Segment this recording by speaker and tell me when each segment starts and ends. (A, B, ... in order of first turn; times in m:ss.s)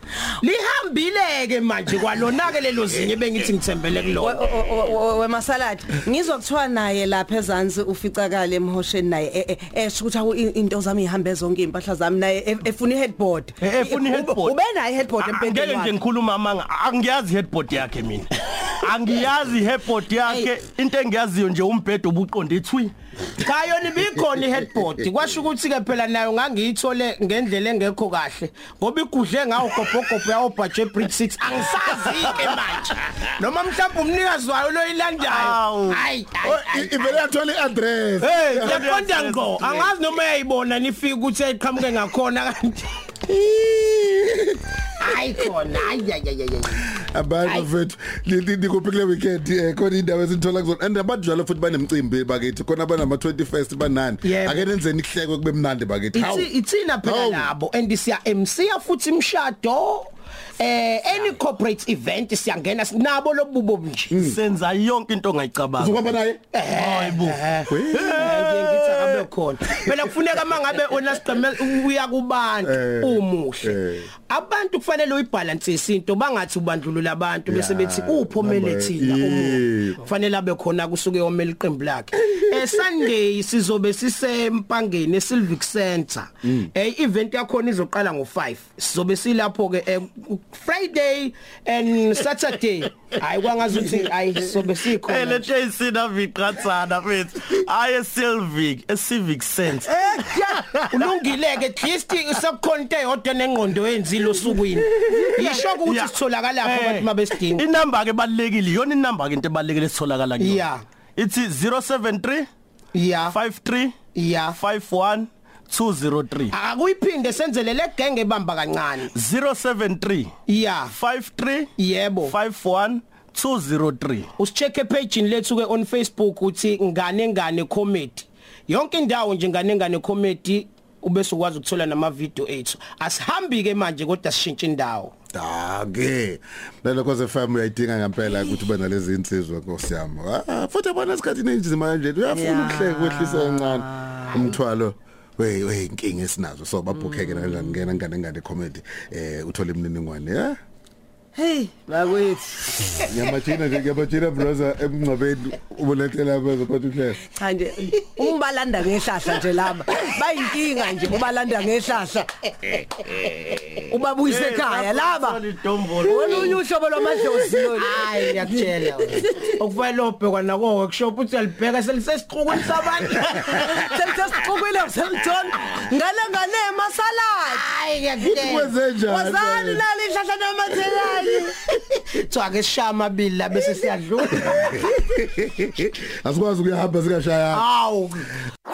0:00.4-0:04.4 A
0:04.2-0:16.0 B
0:13.6-0:14.6 C
0:15.2-0:22.9 C
0:23.4-0:37.2 A
0:32.2-0:32.6 C
0:35.2-0:36.0 C
0:36.4-0:38.9 D
0:38.2-0:42.9 A
0:38.4-0:40.0 C
0:43.3-0:44.6 D
0:45.0-0:46.9 A
0:47.0-0:56.5 D
0:47.4-0:47.7 A
0:54.2-0:54.7 A
0:56.1-1:04.2 A
0:57.0-0:57.5 D
1:04.1-1:04.4 D
1:04.2-1:06.1 C
1:05.8-1:06.4 D
1:06.5-1:35.5 A
1:06.7-1:09.2 C
1:07.7-1:08.3 D
1:12.6-1:14.1 D
1:17.5-1:20.0 D
1:34.6-1:41.0 C
1:39.9-1:40.6 B
1:40.9-1:47.6 A
1:45.2-1:50.6 C
1:50.4-1:50.8 A
1:51.2-1:52.5 C
1:52.9-1:53.4 A
1:53.3-1:53.9 C
1:54.1-1:54.6 A
1:54.5-1:56.5 C
1:56.5-1:59.1 A
1:59.1-2:00.3 C
2:00.5-2:00.9 A
2:00.9-2:01.7 C
2:01.8-2:02.3 A
2:02.2-2:04.3 C
2:04.4-2:15.1 A
2:15.3-2:30.6 D
2:22.3-2:24.5 B
2:27.0-2:27.6 B
2:31.3-2:33.0 B
2:33.1-2:37.2 D
2:37.3-2:42.3 B
2:43.8-2:45.4 B
2:44.3-2:46.6 C
2:46.0-2:49.3 B
2:47.8-2:53.4 A
2:53.4-2:57.6 B
2:57.5-2:58.7 A
2:58.2-2:59.8 D
2:59.0-3:01.5 B
3:02.2-3:04.8 A
3:04.5-3:07.6 D
3:07.5-3:08.3 A